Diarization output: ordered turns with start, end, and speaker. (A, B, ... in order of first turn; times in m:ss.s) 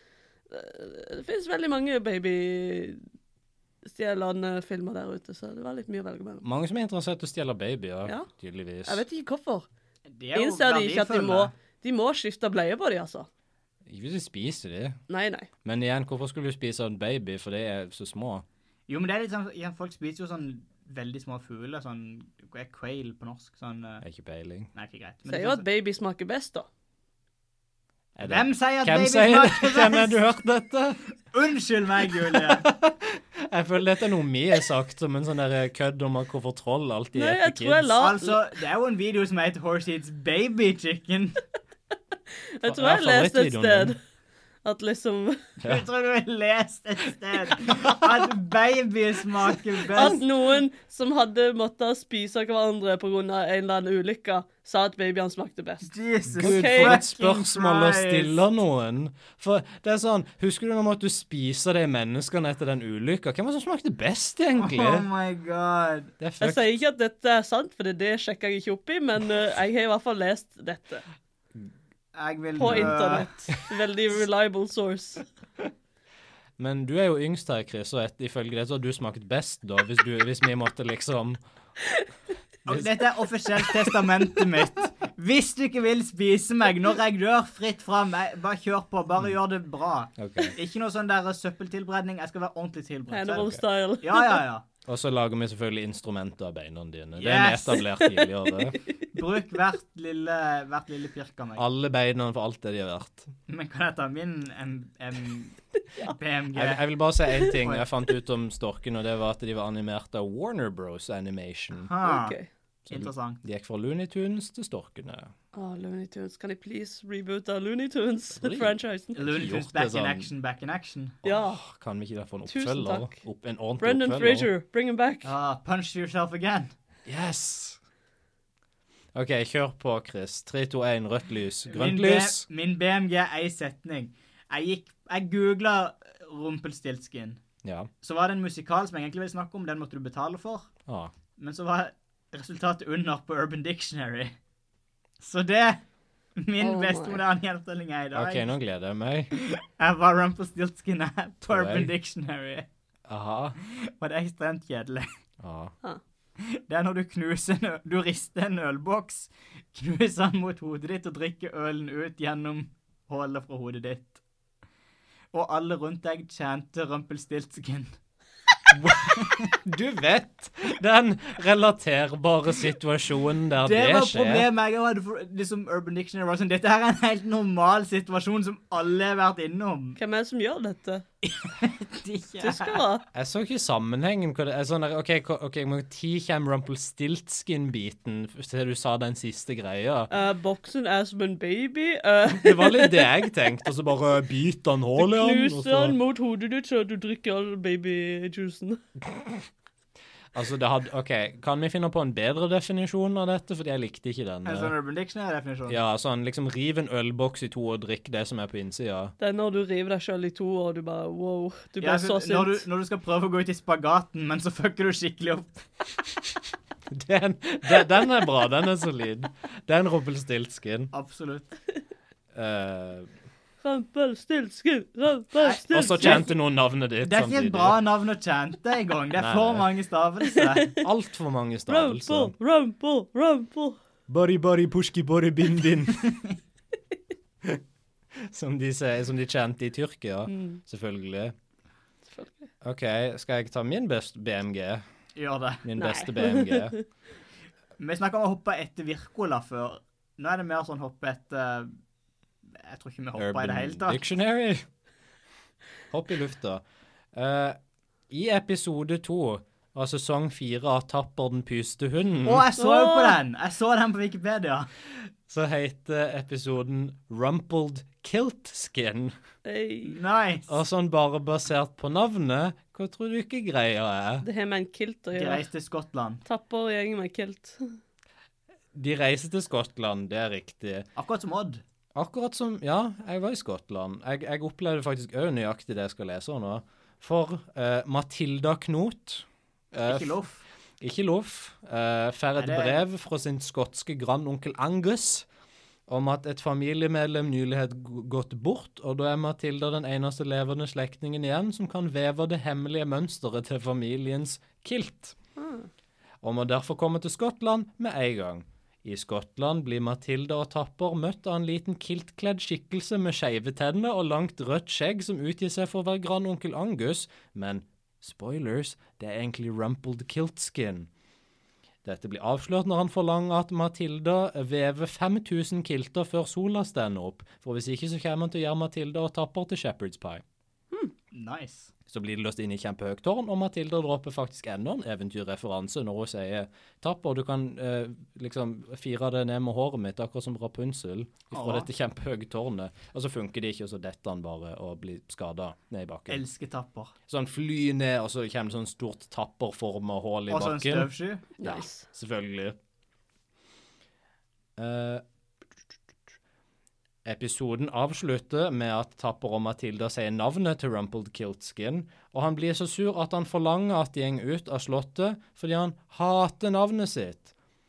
0:00.5-0:03.0 A
0:03.8-0:06.4 A
0:06.4-0:09.0 B
0:08.8-0:09.7 A
0:10.1-0:11.5 C
0:10.3-0:13.3 A
0:13.9-0:15.0 B
0:15.1-0:15.5 A
0:15.6-0:18.4 B
0:18.9-0:24.0 C
0:24.0-0:24.7 B
0:24.7-0:25.6 C
0:25.3-0:26.7 A
0:28.2-0:30.2 C
0:28.2-0:31.0 B
0:31.3-0:32.6 C
0:32.2-0:37.9 B
0:37.1-0:38.4 A
0:38.0-0:41.4 C
0:42.6-0:44.0 A
0:42.6-0:44.0 B
0:44.6-0:45.5 A
0:45.6-0:50.2 C
0:47.6-0:48.2 B
0:49.9-0:57.0 A
0:49.9-0:50.2 B
0:55.8-0:58.4 C
0:56.3-1:05.0 B
1:04.6-1:06.1 C
1:06.2-1:06.8 B
1:06.4-1:11.0 A
1:12.1-1:13.3 C
1:12.6-1:15.2 A
1:12.6-1:13.0 B
1:16.6-1:21.4 B
1:22.6-1:34.6 C
1:22.7-1:22.9 B
1:23.6-1:23.9 B
1:30.2-1:30.5 B
1:33.1-1:34.4 A
1:33.4-1:33.6 B
1:34.8-1:38.8 B
1:37.2-1:37.8 C
1:37.8-1:38.9 A
1:39.1-1:41.6 C
1:41.6-1:43.3 B
1:43.5-1:46.8 C
1:46.5-1:51.9 B
1:47.4-1:47.8 C
1:51.8-1:52.4 C
1:52.0-1:52.5 A
1:52.9-1:55.3 B
1:52.9-1:53.4 C
1:55.5-1:59.2 A
1:58.3-2:00.3 B
1:59.2-2:01.2 C
2:01.2-2:01.6 A
2:01.2-2:04.5 B
2:02.5-2:03.2 A
2:03.8-2:05.3 A
2:05.2-2:06.7 C
2:07.0-2:07.8 B
2:09.1-2:12.4 B
2:11.7-2:17.4 C
2:17.6-2:17.9 B
2:18.0-2:20.7 C
2:20.8-2:21.1 B
2:21.4-2:24.4 C
2:25.2-2:25.8 C
2:26.4-2:28.5 C
2:26.6-2:27.2 A
2:28.1-2:29.3 B
2:29.3-2:32.7 C
2:31.5-2:31.9 B
2:33.1-2:33.6 B
2:33.6-2:35.1 C
2:35.4-2:35.7 B
2:36.4-2:44.2 C
2:45.3-2:48.0 C
2:48.7-2:49.5 C
2:48.9-2:54.5 B
2:53.6-3:00.0 C
3:00.0-3:01.0 A
3:01.2-3:02.8 C
3:02.4-3:03.0 A
3:03.1-3:10.1 B
3:10.1-3:13.2 A
3:12.3-3:16.0 B
3:15.0-3:18.8 A
3:20.3-3:24.7 B
3:24.4-3:25.8 C
3:25.7-3:29.1 B
3:29.2-3:32.6 A
3:31.8-3:35.6 C
3:36.9-3:40.9 B
3:40.9-3:41.5 C
3:42.3-3:43.1 B
3:43.6-3:46.3 A
3:45.4-3:46.3 C
3:45.7-3:47.8 B
3:47.0-3:50.7 C
3:49.2-3:49.6 B
3:50.3-3:50.9 A
3:50.8-3:52.3 B
3:51.7-3:53.8 A
3:54.1-3:56.1 B
3:55.9-3:56.3 C
3:58.1-4:01.3 B
4:00.3-4:00.6 A
4:02.1-4:02.5 A
4:02.6-4:04.8 B
4:05.1-4:05.7 C
4:05.6-4:06.8 B
4:05.8-4:06.8 A
4:07.8-4:11.7 C
4:12.6-4:14.0 C
4:13.2-4:14.6 B
4:15.9-4:16.6 B
4:17.1-4:17.6 B
4:18.1-4:22.5 B
4:22.2-4:24.7 C
4:22.6-4:23.2 A
4:25.0-4:29.1 B
4:29.4-4:30.0 A
4:29.8-4:30.6 C
4:30.5-4:34.2 B
4:34.2-4:35.5 A
4:35.1-4:36.2 C
4:36.2-4:37.8 A
4:38.7-4:40.9 B
4:41.0-4:41.6 C
4:41.9-4:50.2 B
4:49.8-4:50.4 C
4:50.8-4:55.2 B
4:52.4-4:52.8 C
4:55.9-5:05.2 B
5:05.4-5:05.7 A
5:06.2-5:20.9 B
5:21.8-5:30.2 B
5:31.1-5:31.7 C
5:31.9-5:46.2 B
5:41.3-5:41.7 C
5:46.1-5:46.9 C
5:47.1-5:52.6 B
5:50.3-5:51.3 C
5:51.4-5:51.8 A
5:54.6-5:55.0 B
5:57.0-6:07.3 B